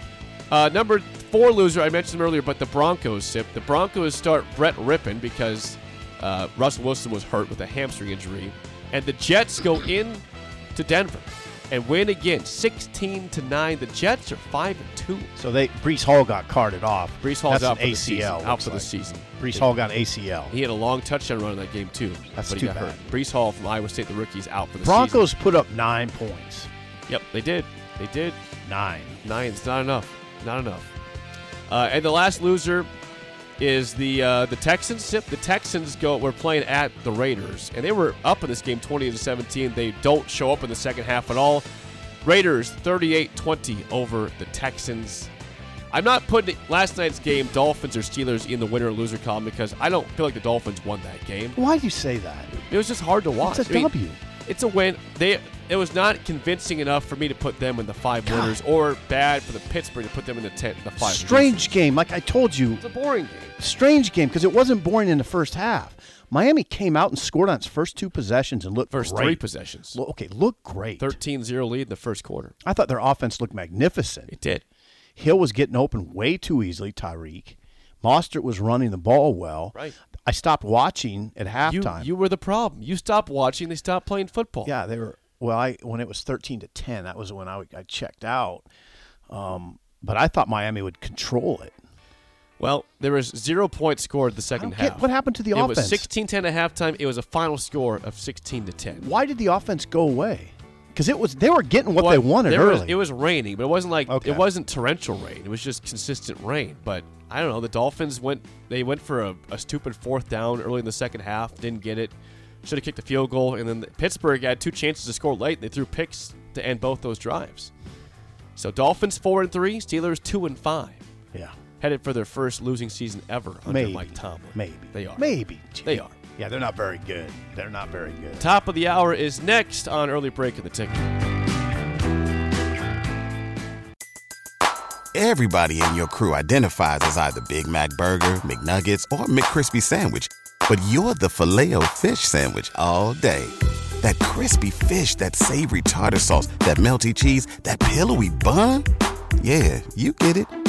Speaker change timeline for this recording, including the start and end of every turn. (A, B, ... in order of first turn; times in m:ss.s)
0:00.5-0:10.2 A
0:10.8-0:15.3 A
0:15.4-0:20.5 B
0:17.2-0:19.7 A
0:20.5-0:25.3 A
0:22.4-0:23.0 B
0:24.8-0:26.7 B
0:27.1-0:28.4 A
0:28.6-0:29.2 B
0:29.2-0:30.9 A
0:31.7-0:32.9 A
0:33.6-0:41.6 A
0:42.2-0:45.3 A
0:45.9-0:51.6 A
0:51.6-0:52.7 B
0:52.7-0:53.9 A
0:53.4-0:54.2 B
0:54.5-1:01.8 A
0:58.2-0:58.6 B
1:01.0-1:02.8 B
1:02.8-1:03.5 A
1:03.6-1:11.2 B
1:08.9-1:10.0 A
1:11.0-1:12.5 A
1:12.6-1:14.3 B
1:14.3-1:14.6 A
1:15.2-1:22.1 B
1:21.6-1:24.7 A
1:24.6-1:28.7 B
1:29.3-1:31.7 B
1:32.6-1:39.0 A
1:34.6-1:36.1 B
1:38.9-1:43.0 B
1:42.0-1:57.7 A
1:44.1-1:44.5 B
1:58.6-2:01.0 A
2:01.8-2:05.3 A
2:03.7-2:08.5 B
2:05.8-2:06.2 A
2:08.4-2:11.1 A
2:15.1-2:28.9 C
2:29.4-2:30.5 C